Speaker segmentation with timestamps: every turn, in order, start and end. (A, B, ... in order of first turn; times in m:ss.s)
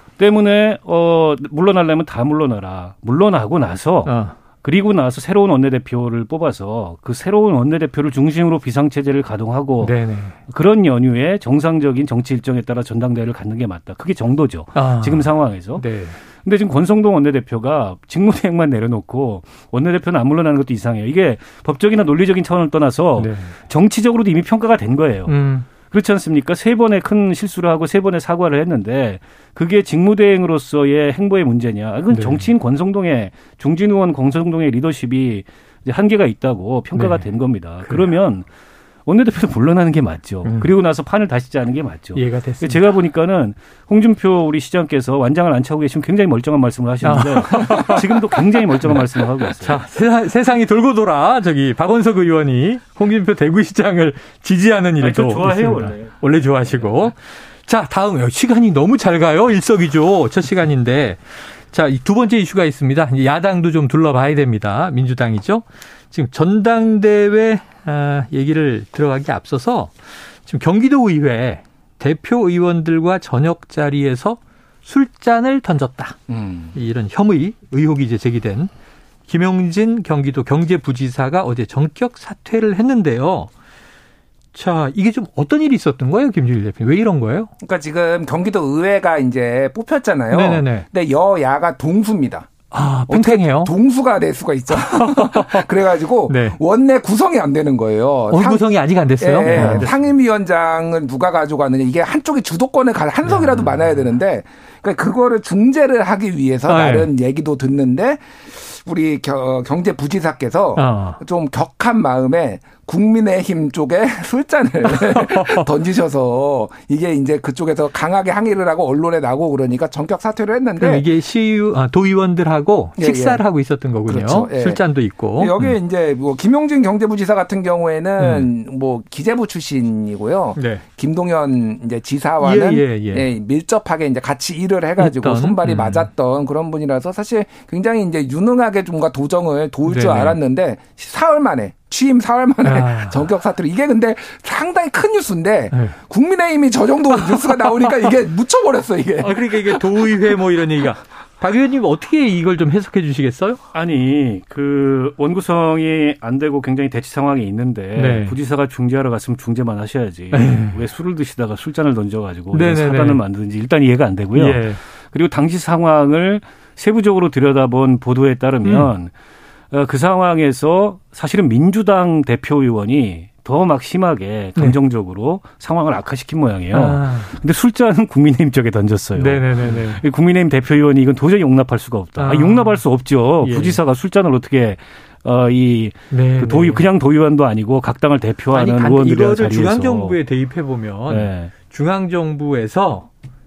0:00.2-0:38.4 A
0:04.0-0:04.3 B
0:09.8-0:10.4 B
0:14.8-0:16.2 B
0:23.2-0:23.6 B
0:25.3-0:25.7 B
0:32.1-0:32.5 B
0:36.9-0:37.3 B
0:39.0-0:49.8 A
0:42.1-0:42.9 B
0:47.0-0:49.0 B
0:49.6-1:16.2 B
0:55.0-0:56.9 A
1:16.3-1:16.7 C
1:16.7-1:18.7 B
1:19.3-1:23.5 B
1:24.5-1:27.5 B
1:27.6-1:32.5 C
1:30.3-1:30.9 B
1:32.7-1:33.7 B
1:33.1-1:38.6 C
1:34.7-1:35.7 B
1:36.3-1:36.6 B
1:38.3-1:39.9 B
1:39.2-2:01.0 C
1:39.4-1:40.1 A
1:43.2-1:43.6 B
1:46.7-1:47.1 B
1:50.8-1:51.2 B
1:54.9-1:55.7 B
2:00.8-2:05.7 B
2:03.0-2:03.4 C
2:04.1-2:04.8 C
2:05.4-2:29.8 C
2:08.2-2:08.5 B
2:10.6-2:10.8 B
2:12.4-2:13.3 B
2:15.0-2:16.1 B
2:19.9-2:20.3 B
2:22.6-2:23.2 B
2:25.7-2:26.0 B
2:29.2-2:33.6 B
2:33.7-2:49.1 A
2:37.9-2:38.3 B
2:40.3-2:40.8 B
2:42.5-2:43.2 B
2:44.3-2:44.8 B
2:49.7-3:10.2 A
2:56.7-2:57.3 B
2:59.2-3:00.0 B
3:02.2-3:02.8 B
3:03.4-3:03.8 B
3:06.1-3:06.8 B
3:08.5-3:13.1 B
3:11.1-3:11.5 A